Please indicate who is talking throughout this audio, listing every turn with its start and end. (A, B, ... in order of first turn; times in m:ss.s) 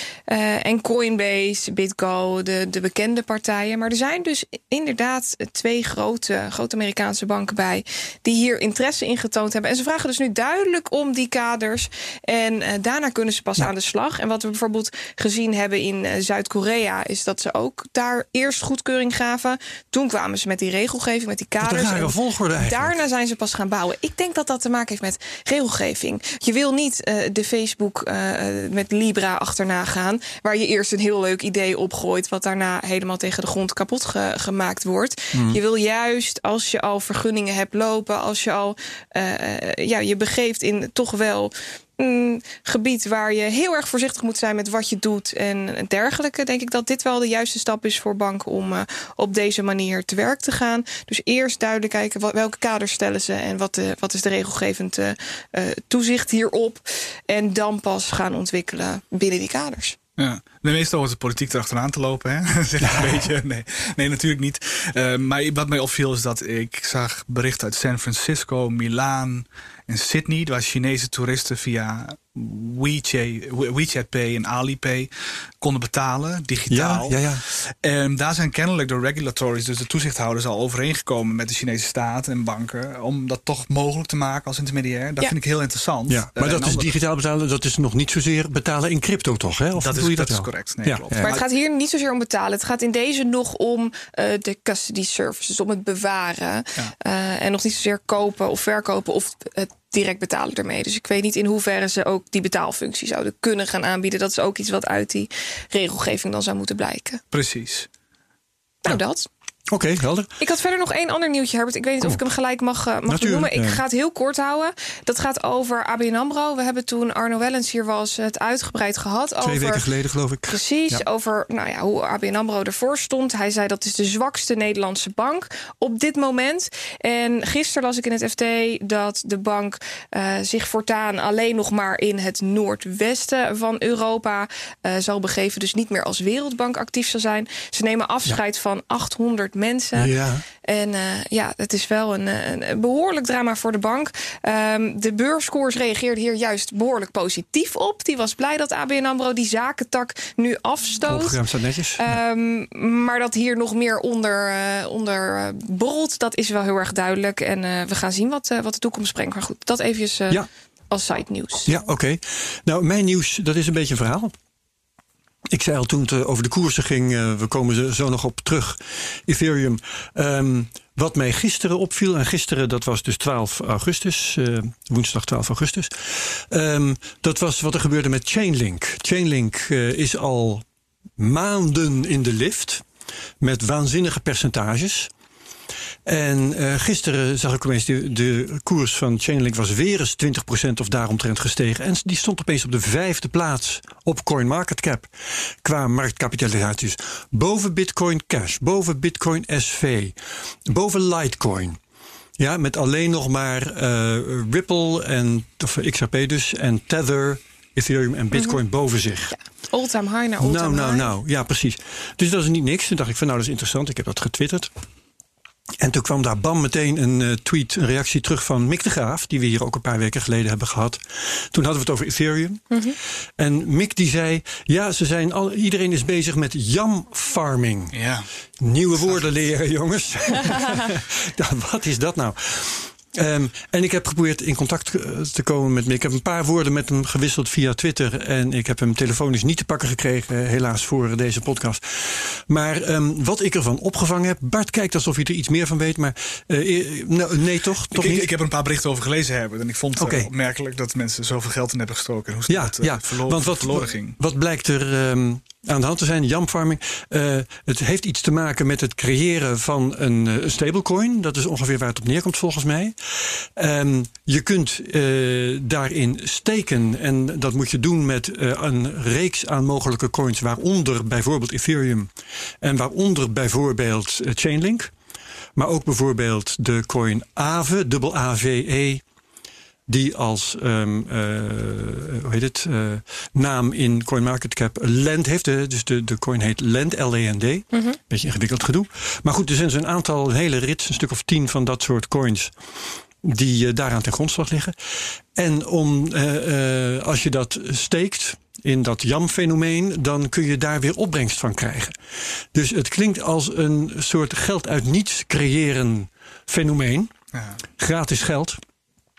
0:00.3-1:00.0 A
0:21.6-0:23.0 B
0:35.3-0:35.6 B
1:00.2-1:26.9 C
1:16.7-1:17.4 B
1:26.1-1:31.4 B
1:29.8-1:31.5 C
1:31.2-1:47.2 A
1:47.3-1:47.9 C
1:48.8-1:49.3 A
1:49.7-1:50.3 B
1:50.4-1:59.9 A
1:53.1-1:53.8 B
1:59.4-2:01.0 B
2:00.5-2:31.4 A
2:20.0-2:20.4 B
2:31.1-2:32.2 B
2:32.0-2:41.7 A
2:41.7-2:44.3 B
2:45.5-3:00.6 B
3:01.2-3:02.8 B
3:03.4-3:05.1 B
3:06.1-3:15.1 B
3:15.6-3:20.2 B
3:20.7-3:21.8 B
3:22.4-3:29.4 B
3:28.3-3:28.6 A
3:29.3-3:31.1 A
3:30.4-3:34.7 B
3:35.8-3:42.7 B
3:42.7-3:43.0 A
3:43.4-3:48.0 B
3:47.9-3:48.3 C
3:48.6-4:08.3 B
4:07.9-4:14.2 C
4:10.0-4:10.3 B
4:12.5-4:34.9 B
4:35.6-4:39.0 B
4:39.9-4:52.5 B
4:53.2-5:07.1 B
5:07.3-5:07.6 C
5:07.8-5:08.6 B